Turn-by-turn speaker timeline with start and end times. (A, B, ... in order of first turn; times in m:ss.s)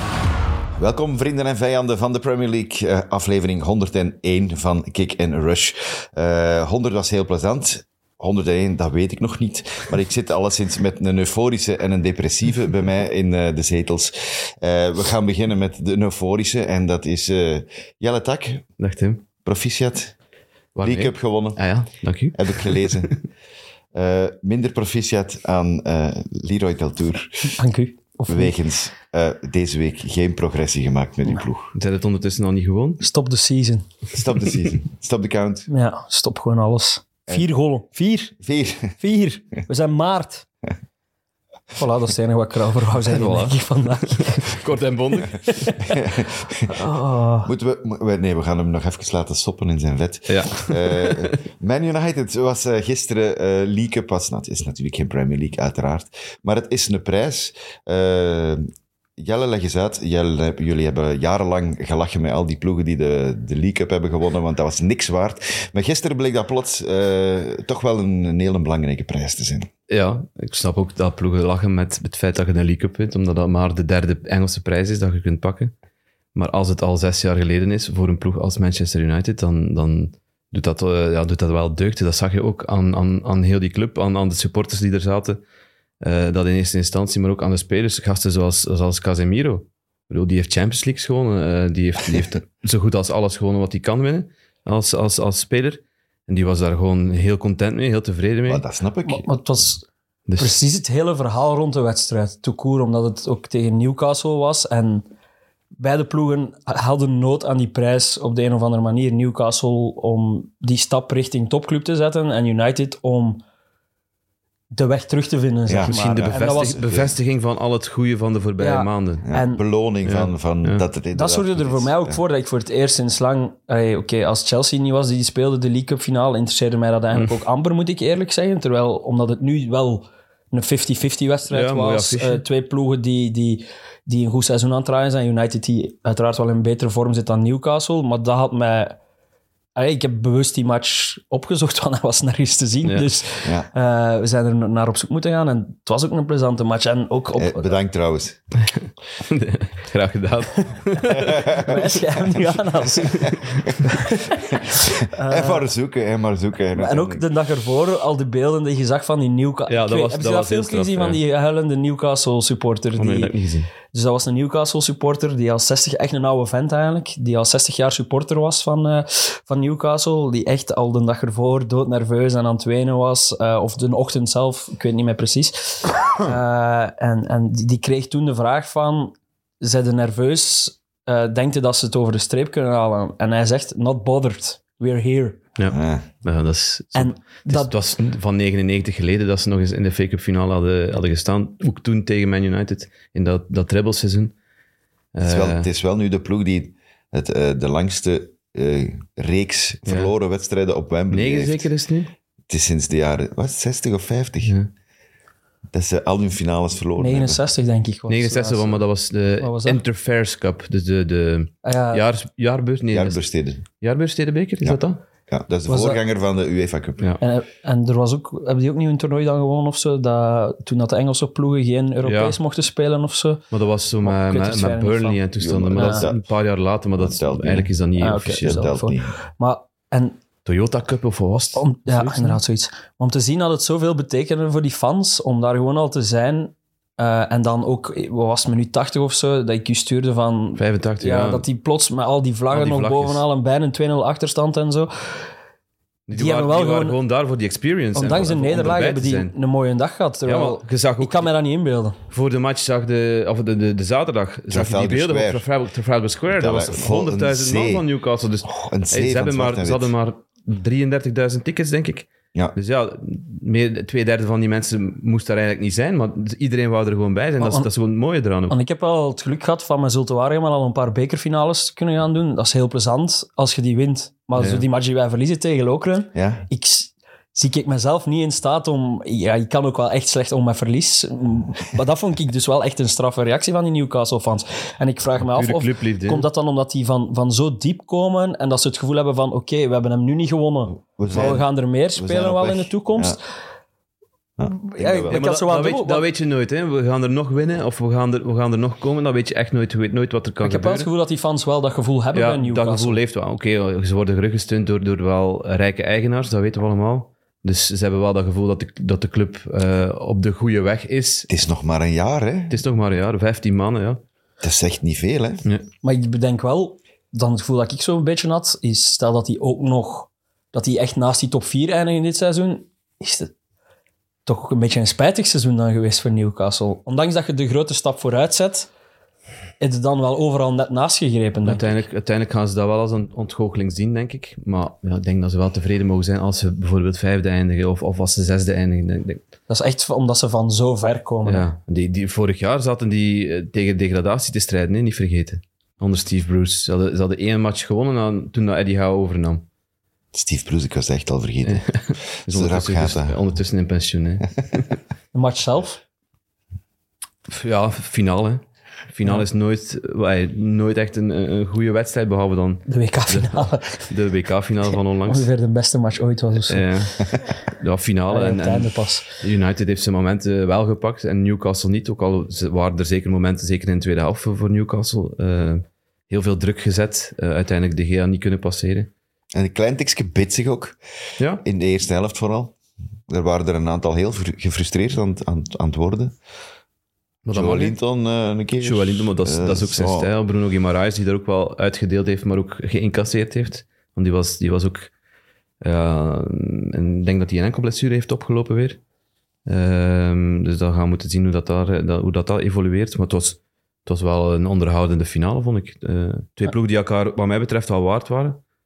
0:00.8-0:18.6 A
0:18.8-0:19.2 B
0:19.4-0:20.1 A
0:20.8-0:23.1 B
0:20.8-0:21.6 A
0:22.3-0:23.1 A
0:23.9-0:27.6 A
0:27.4-0:28.5 C
0:28.3-0:31.7 A
0:31.8-0:33.0 B
0:33.0-0:33.9 C
0:34.1-0:35.7 A
0:35.7-0:38.3 C
0:38.4-0:39.0 A
0:39.0-0:40.4 C
0:41.7-0:44.6 C
0:43.0-0:45.7 B
0:45.2-0:46.0 C
0:45.9-0:46.8 A
0:46.7-0:47.5 C
0:47.4-1:09.7 A
0:50.3-0:51.3 B
1:09.9-1:15.7 B
1:16.3-1:25.4 B
1:26.0-1:38.6 B
1:38.4-1:39.2 A
1:39.0-1:39.8 C
1:40.3-1:40.6 B
1:40.4-1:45.1 C
1:45.8-1:53.4 C
1:54.7-1:56.8 C
1:55.7-1:57.2 A
1:55.8-1:59.2 B
1:58.6-1:59.6 C
1:59.2-2:02.2 A
2:00.0-2:00.8 B
2:01.1-2:19.0 C
2:11.5-2:12.4 B
2:19.8-2:27.7 C
2:22.8-2:23.1 B
2:27.4-2:28.4 A
2:28.8-2:31.8 B
2:30.6-2:35.7 C
2:31.1-2:31.9 A
2:33.1-2:33.8 B
2:34.5-2:37.3 A
2:36.7-2:43.3 C
2:39.7-2:41.2 B
2:43.0-2:43.7 B
2:43.8-3:05.4 C
3:05.6-3:14.3 B
3:05.7-3:06.0 A
3:06.9-3:07.7 C
3:15.1-3:15.7 B
3:15.2-3:21.7 A
3:19.8-3:20.1 B
3:21.1-3:22.1 B
3:22.5-3:24.5 A
3:24.4-3:24.7 B
3:25.7-3:27.4 A
3:27.0-3:28.9 C
3:28.1-3:35.0 B
3:29.4-3:29.8 C
3:31.6-3:32.0 C
3:32.9-3:33.6 A
3:34.6-3:37.0 A
3:35.7-3:36.0 C
3:37.2-3:43.4 C
3:42.0-3:42.4 B
3:43.5-3:48.6 B
3:44.0-3:45.2 C
3:45.4-3:46.2 A
3:45.7-3:46.1 C
3:47.0-3:49.1 A
3:48.0-3:50.2 C
3:50.4-3:52.4 B
3:51.6-4:04.9 C
4:00.6-4:01.4 B
4:02.5-4:03.2 B
4:06.1-4:09.3 B
4:06.1-4:07.0 C
4:07.9-4:12.0 C
4:10.2-4:11.3 B
4:12.1-4:28.6 B
4:14.5-4:15.5 A
4:16.3-4:17.8 A
4:18.4-4:19.9 A
4:27.4-4:27.7 C
4:28.5-4:53.2 C
4:34.4-4:34.6 B
4:36.1-4:36.4 A
4:45.2-4:46.3 B
4:50.8-4:53.2 A
4:54.4-4:55.2 A
4:54.4-4:56.0 C
4:55.1-5:00.9 B
5:00.4-5:03.0 C
5:02.1-5:11.3 B
5:11.3-5:12.6 A
5:12.5-5:14.0 B
5:14.4-5:15.4 A
5:15.8-5:23.3 C
5:24.2-5:28.7 C
5:29.6-5:31.8 C
5:31.4-5:39.2 B
5:39.5-5:41.5 C
5:41.2-5:49.4 B
5:50.1-5:51.7 A
5:51.4-5:54.8 B
5:52.2-5:53.2 A
5:55.1-5:55.8 C
5:57.3-6:05.3 B
6:02.6-6:03.9 C
6:04.7-6:06.6 C
6:06.5-6:18.9 B
6:08.1-6:09.1 C
6:19.3-6:20.8 A
6:21.4-6:22.5 A
6:23.1-6:26.1 A
6:27.2-6:27.8 B
6:27.3-6:30.1 A
6:28.6-6:34.9 B
6:35.6-6:38.8 B
6:39.4-6:48.4 B